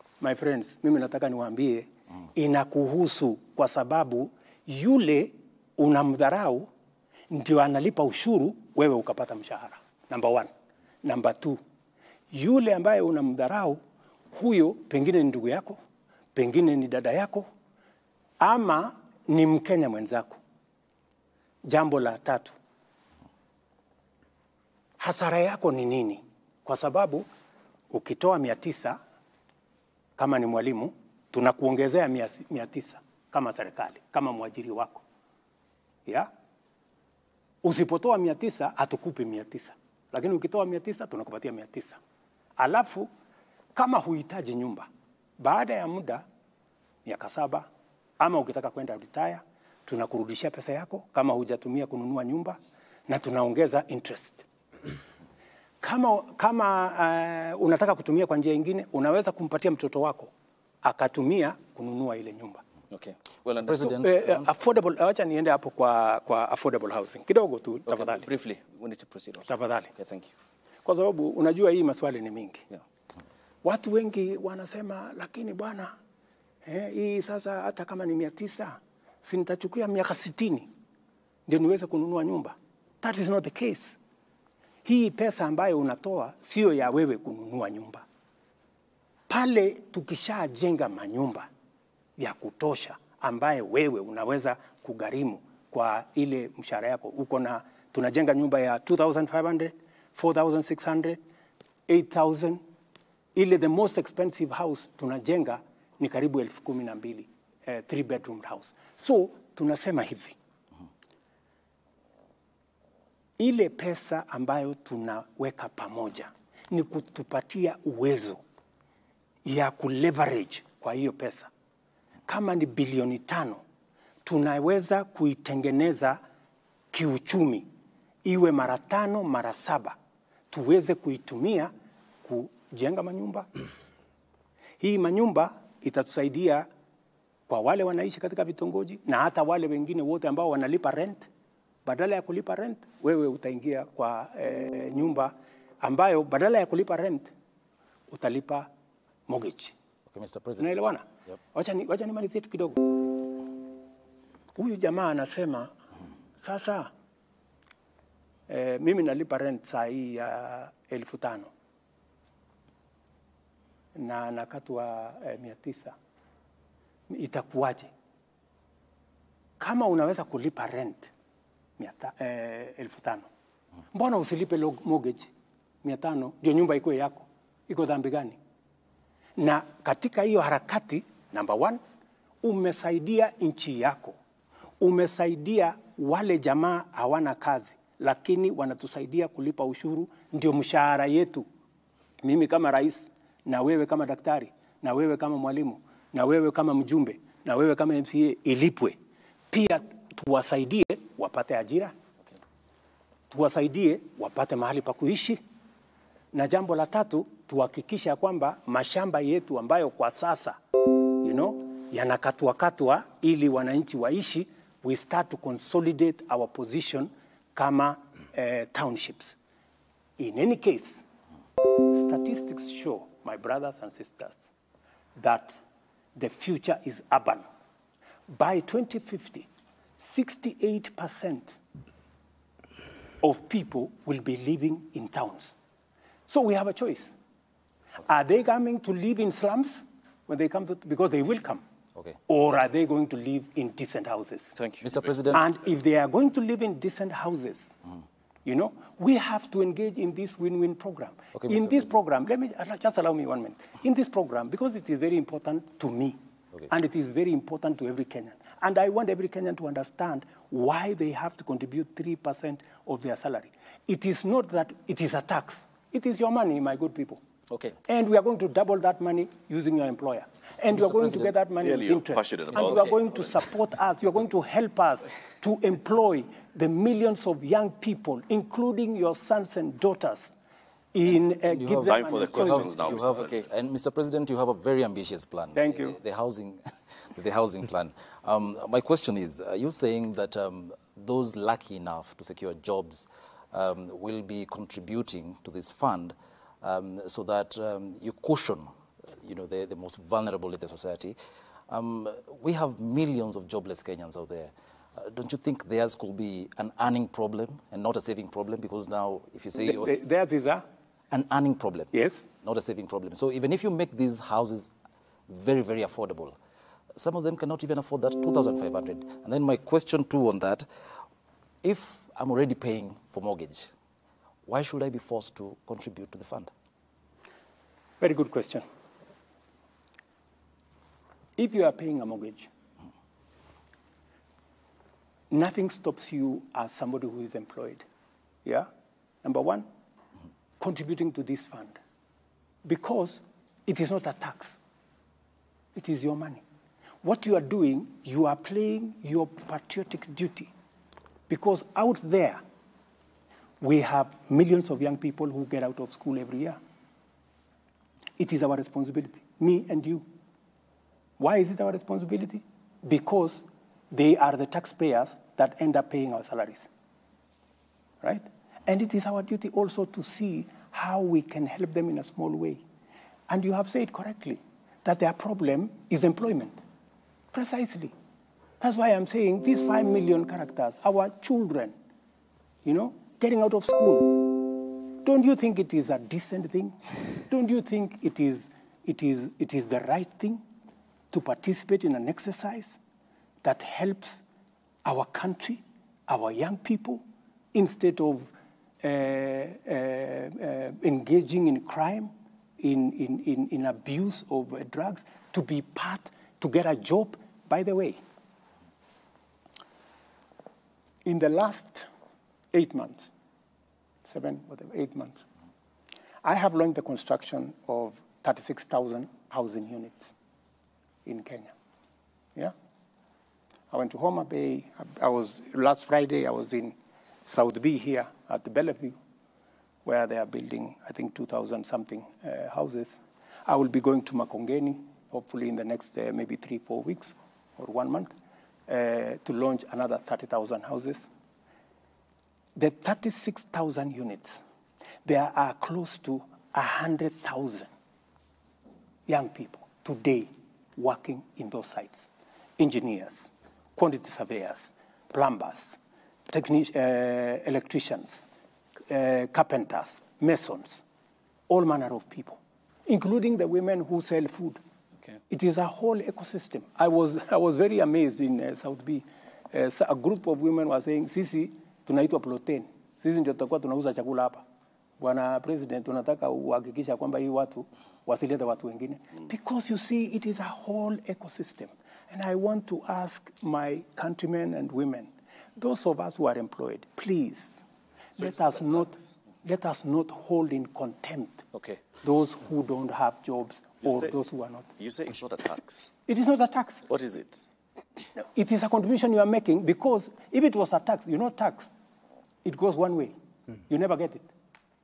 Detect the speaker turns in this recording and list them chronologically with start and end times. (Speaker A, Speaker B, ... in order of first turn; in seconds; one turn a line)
Speaker A: 0.2-6.7
Speaker A: 7.3-10.5
Speaker A: 11.0-11.6
Speaker A: 12.3-13.8
Speaker A: 14.3-15.8
Speaker A: 16.3-17.5
Speaker A: 18.4-20.4
Speaker A: 21.7-22.6
Speaker A: 25.0-27.3
Speaker A: 27.9-29.0
Speaker A: 30.2-35.0
Speaker A: 37.6-42.0
Speaker A: 42.6-43.1
Speaker A: 43.8-44.9
Speaker A: 45.4-46.2
Speaker A: 47.0-47.7
Speaker A: 48.2-52.6
Speaker A: 53.1-54.4
Speaker A: 55.8-60.3
Speaker A: 60.8-62.6
Speaker B: 62.9-63.8
Speaker C: 63.6-64.5
Speaker A: 63.9-68.3
Speaker B: 67.9-70.3
Speaker A: 69.5-69.9
Speaker A: 70.8-72.7
Speaker A: 73.6-75.9
Speaker A: 76.7-80.7
Speaker A: 81.5-84.0
Speaker A: 84.8-88.0
Speaker A: 89.3-91.5
Speaker A: 92.2-101.2
Speaker A: 101.9-102.6
Speaker A: 103.3-110.4
Speaker A: 113.4-118.4
Speaker A: 119.5-121.5
Speaker A: 122.3-123.6
Speaker A: 124.2-126.2
Speaker A: 126.9-127.7
Speaker A: 128.2-130.0
Speaker A: 130.5-131.7
Speaker A: 132.2-133.5
Speaker A: 134.8-136.7
Speaker A: 137.5-141.3
Speaker A: 141.8-147.3
Speaker A: 148.1-148.7
Speaker A: 149.3-149.7
Speaker C: 150.1-150.8
Speaker A: 150.6-152.9
Speaker A: 154.6-155.7
Speaker A: 156.4-156.9
Speaker A: 158.5-161.5
Speaker A: 163.9-165.9
Speaker A: 167.1-167.9
Speaker A: 169.6-171.1
Speaker A: 171.8-173.3
Speaker A: 173.9-175.3
Speaker A: 175.8-178.4
Speaker A: 179.4-181.8
Speaker A: 182.4-184.2
Speaker A: 184.8-191.4
Speaker A: 192.2-199.0
Speaker A: 199.5-201.9
Speaker A: 203.3-205.4
Speaker A: 206.3-210.6
Speaker A: 211.2-219.4
Speaker A: 220.2-221.0
Speaker A: 221.9-224.5
Speaker A: 225.2-225.6
Speaker A: 226.2-227.4
Speaker A: 228.3-229.5
Speaker A: 230.0-231.6
Speaker A: 233.2-235.6
Speaker A: 236.3-237.1
Speaker A: 238.1-241.6
Speaker A: 242.3-244.6
Speaker C: 244.8-245.4
Speaker A: 245.3-247.7
Speaker A: 248.4-256.2
Speaker C: 251.4-251.7
Speaker A: 256.7-267.2
Speaker A: 267.9-280.3
Speaker C: 270.7-271.2
Speaker D: 271.6-273.2
Speaker A: 280.9-282.9
Speaker C: 281.4-286.6
Speaker D: 281.9-283.4
Speaker A: 285.6-286.0
Speaker C: 287.1-298.7
Speaker C: 299.2-301.2
Speaker C: 301.7-310.0
Speaker A: 309.6-310.6
Speaker C: 311.1-314.7
Speaker A: 311.9-312.2
Speaker C: 315.3-316.4
Speaker C: 317.0-320.7
Speaker C: 321.6-323.7
Speaker C: 324.5-326.5
Speaker A: 328.0-328.6
Speaker A: 331.4-332.5
Speaker A: 335.3-337.8
Speaker A: 339.2-339.6
Speaker A: 340.6-341.8
Speaker A: 342.6-344.6
Speaker A: 345.8-346.4
Speaker A: 347.0-350.5
Speaker A: 351.3-352.4
Speaker A: 353.6-356.6
Speaker A: 358.2-360.0
Speaker A: 361.2-366.6
Speaker A: 368.0-372.6
Speaker A: 373.3-376.6
Speaker A: 377.3-377.9
Speaker A: 378.6-381.7
Speaker A: 382.6-386.8
Speaker A: 387.3-390.4
Speaker A: 391.1-392.8
Speaker A: 393.4-394.2
Speaker A: 394.9-408.0
Speaker A: 411.0-411.9
Speaker A: 412.5-413.1
Speaker A: 414.1-415.2
Speaker A: 416.2-420.1
Speaker A: 421.1-421.5
Speaker A: 423.7-426.8
Speaker A: 427.3-429.0
Speaker A: 429.9-438.1
Speaker A: 438.7-441.1
Speaker A: 442.6-444.4
Speaker A: 445.1-447.7
Speaker A: 449.1-452.1
Speaker A: 452.6-455.8
Speaker A: 456.3-458.2
Speaker A: 458.9-460.8
Speaker A: 461.5-464.6
Speaker A: 465.3-474.4
Speaker A: 475.0-487.6
Speaker A: 488.2-491.4
Speaker D: 488.2-489.1
Speaker B: 491.5-491.8
Speaker A: 492.0-494.7
Speaker D: 493.8-494.1
Speaker D: 494.8-495.9
Speaker A: 496.1-496.9
Speaker D: 496.9-497.4
Speaker A: 498.2-501.7
Speaker A: 502.4-503.1
Speaker A: 503.7-504.3